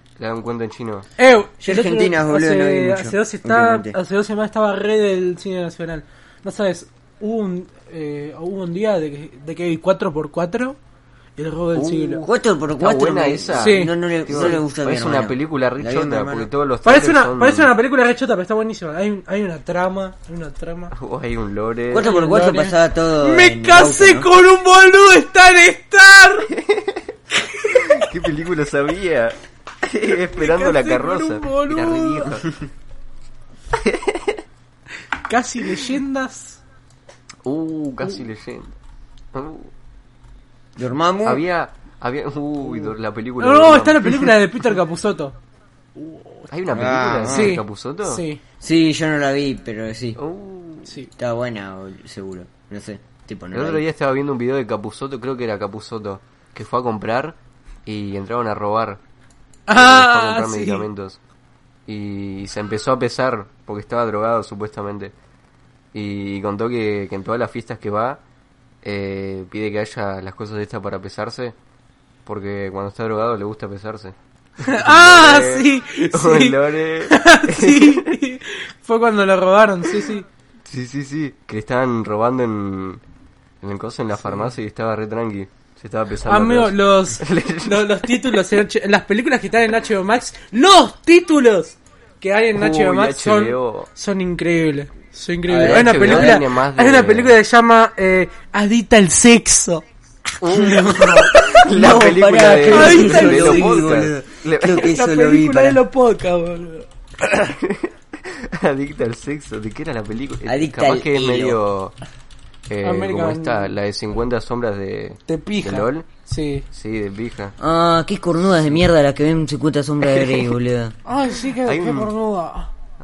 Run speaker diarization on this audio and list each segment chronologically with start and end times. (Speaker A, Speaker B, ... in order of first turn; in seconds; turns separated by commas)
Speaker A: 0.2-1.1, Speaker B: 1.2-10.8, Speaker C: 1.6-4.0, Speaker B: 11.4-12.2, Speaker A: 11.7-17.7, Speaker C: 12.2-16.5, Speaker B: 13.5-14.6, Speaker B: 16.8-20.9, Speaker A: 20.9-22.1, Speaker C: 21.9-24.3, Speaker B: 22.0-26.5, Speaker A: 26.6-27.0, Speaker B: 27.6-28.0, Speaker A: 27.7-32.6, Speaker B: 30.3-32.4, Speaker A: 33.8-34.4, Speaker B: 35.3-36.6, Speaker A: 37.5-38.7, Speaker A: 39.3-39.7, Speaker C: 40.8-41.4, Speaker A: 41.2-44.2, Speaker B: 43.4-45.4, Speaker B: 46.0-46.5, Speaker A: 46.5-48.2, Speaker C: 46.7-47.6, Speaker B: 47.3-48.4, Speaker C: 48.6-50.2, Speaker A: 50.2-50.9, Speaker C: 51.2-53.8, Speaker A: 53.5-59.0, Speaker B: 59.7-60.9, Speaker A: 59.7-61.2, Speaker A: 61.9-65.1, Speaker A: 65.9-68.2, Speaker A: 68.8-71.5, Speaker A: 72.3-78.1, Speaker B: 74.6-80.3, Speaker A: 80.7-83.0, Speaker A: 83.6-88.1, Speaker B: 84.2-84.5, Speaker B: 86.3-99.8, Speaker A: 92.5-93.9, Speaker C: 95.5-96.4, Speaker A: 95.6-97.4, Speaker A: 100.4-104.9, Speaker C: 100.5-105.8, Speaker B: 102.7-103.8, Speaker B: 104.8-107.5, Speaker A: 107.5-112.0, Speaker C: 110.5-111.6, Speaker A: 112.7-116.1, Speaker B: 112.8-113.7, Speaker B: 115.3-116.7, Speaker A: 116.7-117.5, Speaker C: 117.6-121.0, Speaker B: 121.1-122.7, Speaker A: 121.7-122.1